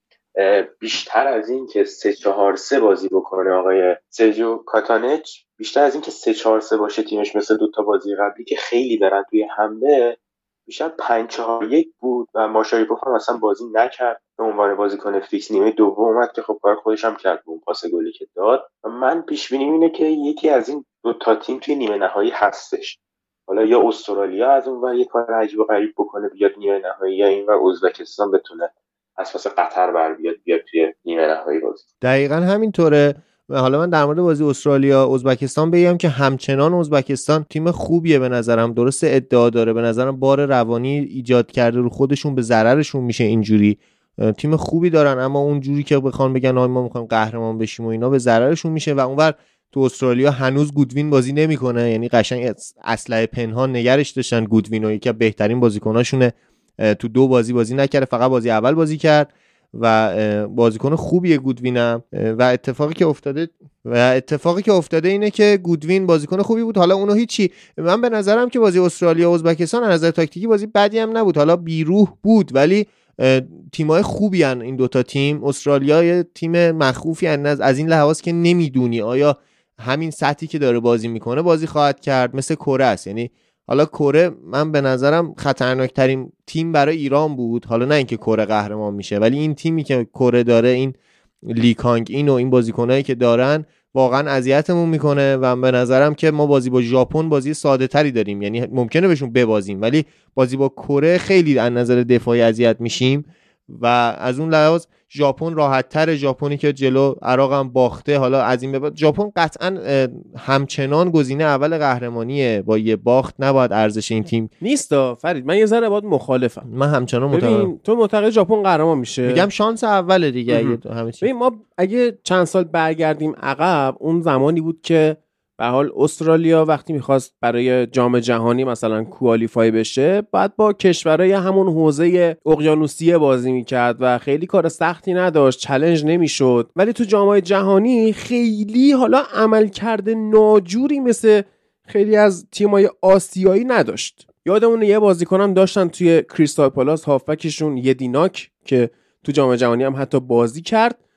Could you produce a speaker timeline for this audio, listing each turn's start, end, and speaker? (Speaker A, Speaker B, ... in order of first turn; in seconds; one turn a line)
Speaker A: 0.4-31.8
Speaker B: 32.0-114.5
Speaker C: 114.6-116.7
Speaker B: 116.6-117.7
Speaker C: 117.3-119.5
Speaker B: 119.2-121.3
Speaker C: 120.5-151.0